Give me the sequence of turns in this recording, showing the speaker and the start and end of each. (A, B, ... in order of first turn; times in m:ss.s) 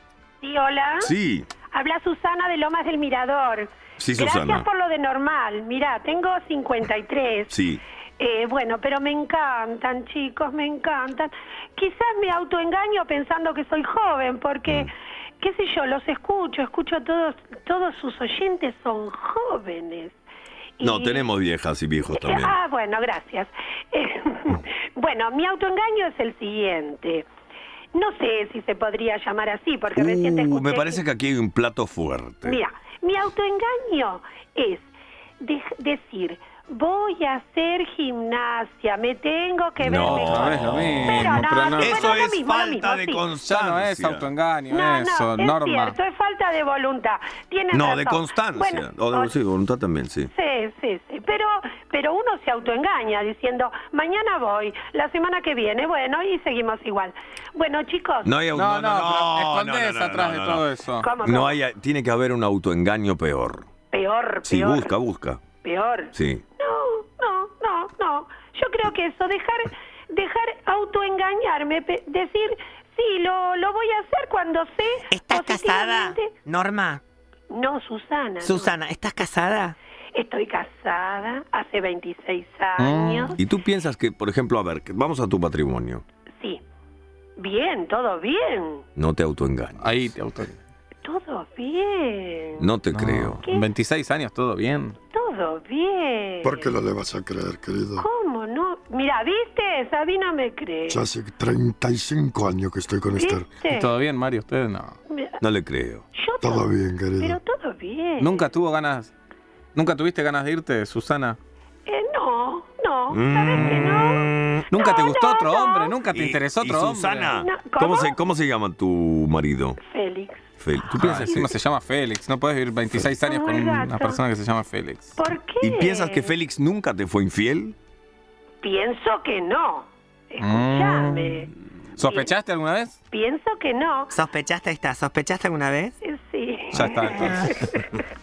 0:00.4-0:01.1 A
0:01.0-0:01.5 B
0:01.7-0:07.5 A
0:04.0-0:04.7 B
0:07.5-0:07.8 B
0:08.2-0:20.2 A
0:20.8-0:21.3 A
0:20.8-0:22.6 B
0:22.1-0:27.3 A
0:27.9-0:31.0 A
0:30.0-0:32.6 B
0:32.4-0:34.9 A
0:35.4-0:43.2 A
0:39.8-0:44.3 B
0:40.0-0:42.1 C
0:43.4-0:46.0 C
0:44.7-0:49.3 A
0:47.7-0:50.3 B
0:50.3-0:58.3 A
0:58.2-1:00.6 B
0:58.5-1:01.1 C
1:01.0-1:01.6 A
1:01.2-1:03.7 B
1:03.9-1:04.9 A
1:04.4-1:05.4 B
1:05.6-1:16.4 A
1:06.1-1:06.4 B
1:15.1-1:17.0 D
1:15.2-1:17.0 B
1:17.5-1:18.8 A
1:18.4-1:19.0 B
1:18.6-1:19.8 D
1:20.1-1:23.4 A
1:22.8-1:23.4 C
1:23.4-1:26.0 B
1:27.4-1:28.8 A
1:29.0-1:30.1 B
1:29.8-1:30.6 C
1:31.0-1:32.7 A
1:32.6-1:33.4 B
1:32.9-1:35.0 C
1:35.1-1:36.8 A
1:36.4-1:38.1 E
1:38.0-1:41.0 A
1:40.9-1:43.5 E
1:43.2-1:43.9 A
1:43.7-1:44.9 C
1:45.1-1:45.4 A
1:45.4-1:46.0 B
1:46.1-1:48.5 A
1:46.4-1:47.4 E
1:48.2-1:49.1 C
1:49.8-1:51.4 C
1:51.9-1:56.0 A
1:53.1-1:54.7 B
1:53.5-1:54.1 C
1:54.7-1:57.3 C
1:56.1-1:59.8 B
1:57.3-1:58.2 A
1:59.8-2:00.4 A
2:00.6-2:01.5 B
2:00.9-2:05.2 C
2:01.2-2:01.6 A
2:03.2-2:04.2 A
2:05.2-2:06.3 A
2:05.6-2:07.8 B
2:08.6-2:12.3 A
2:10.4-2:13.0 C
2:13.1-2:14.2 A
2:14.1-2:15.9 D
2:16.0-2:18.0 A
2:16.7-2:17.5 C
2:17.1-2:17.5 D